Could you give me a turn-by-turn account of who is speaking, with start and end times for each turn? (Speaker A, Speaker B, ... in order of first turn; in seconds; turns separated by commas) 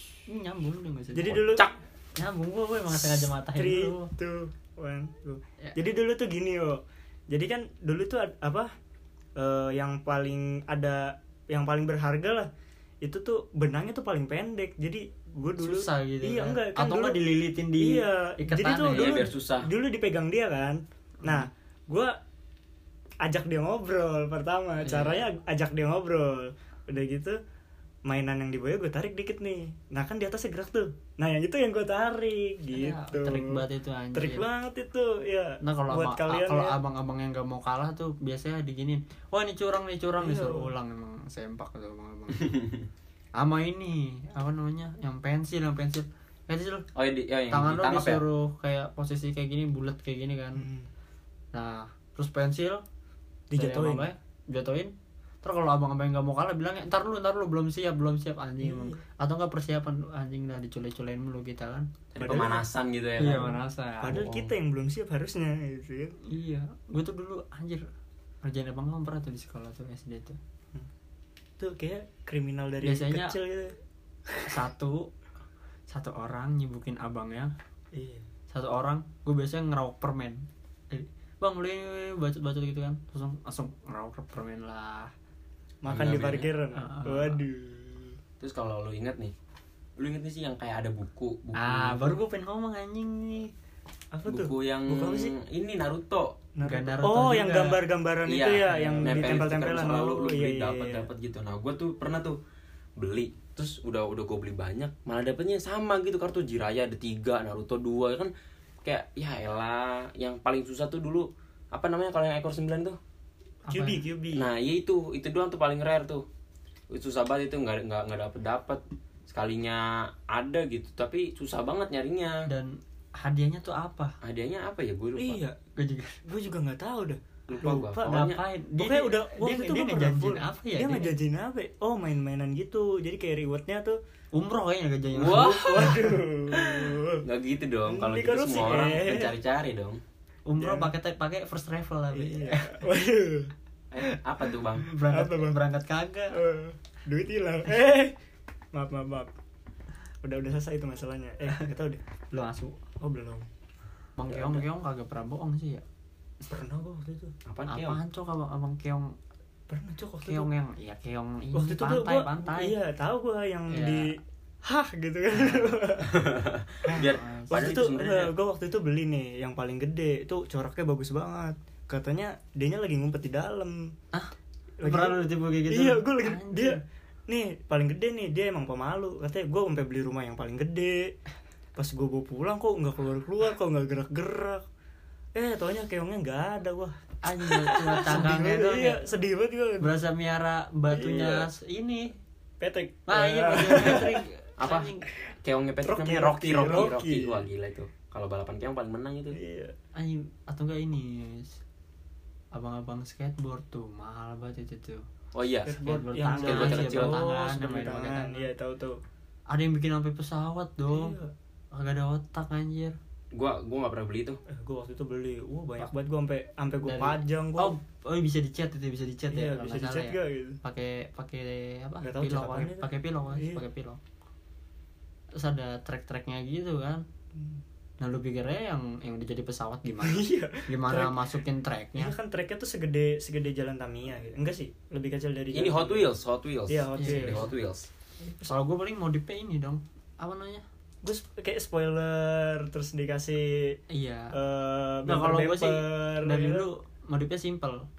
Speaker A: 0.3-1.6, Speaker B: 1.1-1.6, Speaker A: 2.1-4.1, Speaker B: 2.9-8.7, Speaker B: 9.4-12.5, Speaker B: 13.0-17.2, Speaker A: 15.6-19.2, Speaker B: 17.8-22.1, Speaker C: 18.9-19.7, Speaker B: 23.2-27.4, Speaker A: 24.8-25.2, Speaker B: 28.1-33.6, Speaker A: 32.7-34.5, Speaker B: 34.1-36.8, Speaker A: 35.6-42.6, Speaker B: 40.2-40.7, Speaker C: 42.4-42.8, Speaker A: 43.4-46.9, Speaker C: 46.9-48.2, Speaker A: 47.5-50.6, Speaker B: 50.6-50.9, Speaker A: 51.5-52.8, Speaker B: 53.5-54.1, Speaker A: 53.5-61.9, Speaker B: 58.6-59.0, Speaker C: 62.1-63.6, Speaker B: 62.2-62.6, Speaker A: 63.2-64.2, Speaker B: 64.0-66.1, Speaker C: 64.1-64.5, Speaker A: 66.3-67.8, Speaker A: 68.4-70.4, Speaker B: 71.6-73.8, Speaker A: 72.8-73.4, Speaker A: 74.5-75.1, Speaker A: 75.9-77.5, Speaker B: 77.9-78.2, Speaker A: 78.5-85.1, Speaker B: 85.8-88.2, Speaker C: 85.9-86.5, Speaker A: 86.8-87.4, Speaker C: 88.4-89.3, Speaker C: 90.0-92.2, Speaker A: 91.5-93.5, Speaker B: 94.1-95.3, Speaker C: 94.3-96.4, Speaker B: 96.5-101.1, Speaker A: 96.6-97.8, Speaker C: 98.2-102.4, Speaker A: 98.7-99.5, Speaker C: 103.0-108.3, Speaker C: 108.8-113.0, Speaker A: 113.7-114.0, Speaker B: 113.7-114.5, Speaker C: 114.3-116.2, Speaker C: 116.9-122.4, Speaker A: 122.5-124.2, Speaker C: 124.2-125.4, Speaker B: 125.2-125.5, Speaker A: 125.8-126.2, Speaker B: 126.2-128.2, Speaker C: 127.5-128.4, Speaker A: 127.6-131.1, Speaker B: 128.8-134.0, Speaker A: 134.3-135.7, Speaker C: 135.1-140.0, Speaker B: 135.3-137.2, Speaker B: 137.9-139.3, Speaker A: 140.5-142.7, Speaker B: 140.6-140.9, Speaker B: 142.1-143.5, Speaker C: 143.9-144.9, Speaker A: 144.8-146.4, Speaker B: 145.1-145.6, Speaker B: 146.3-148.1, Speaker B: 148.7-149.3, Speaker B: 150.2-152.0, Speaker A: 152.3-152.8, Speaker B: 153.0-153.5, Speaker A: 154.2-155.8, Speaker C: 154.3-154.6, Speaker B: 156.5-157.3, Speaker C: 157.5-158.0, Speaker A: 157.7-159.1, Speaker B: 159.7-160.5, Speaker A: 160.2-162.7, Speaker B: 161.5-164.1, Speaker A: 163.7-164.1, Speaker B: 164.6-166.2, Speaker A: 165.3-165.7, Speaker C: 166.1-168.3, Speaker B: 166.9-173.9, Speaker A: 167.0-167.7, Speaker B: 174.8-181.2, Speaker A: 174.8-176.8, Speaker B: 181.8-184.6, Speaker B: 185.3-187.0, Speaker A: 187.2-189.1, Speaker B: 187.6-189.9, Speaker A: 189.8-192.1, Speaker B: 190.9-191.5, Speaker B: 192.6-194.1, Speaker A: 193.1-195.1, Speaker C: 194.6-194.9, Speaker C: 195.4-199.4, Speaker B: 195.8-197.5, Speaker B: 199.3-199.7, Speaker A: 199.9-201.6, Speaker A: 202.5-205.0, Speaker C: 205.3-205.7, Speaker B: 205.7-209.0, Speaker A: 205.8-208.5, Speaker C: 206.3-207.2, Speaker A: 209.5-211.1, Speaker B: 210.9-211.3, Speaker A: 211.7-212.9, Speaker C: 213.3-214.4, Speaker B: 214.5-217.8, Speaker A: 216.9-224.0, Speaker B: 219.3-220.6, Speaker B: 222.0-223.6, Speaker A: 225.4-227.0, Speaker A: 228.0-232.1, Speaker B: 230.0-231.2, Speaker B: 232.0-236.1, Speaker C: 235.5-237.9, Speaker B: 236.7-237.5, Speaker A: 237.0-237.5, Speaker B: 238.2-238.6, Speaker A: 238.5-240.6, Speaker B: 241.0-243.8, Speaker A: 243.9-244.3, Speaker B: 244.3-246.7, Speaker A: 245.1-247.8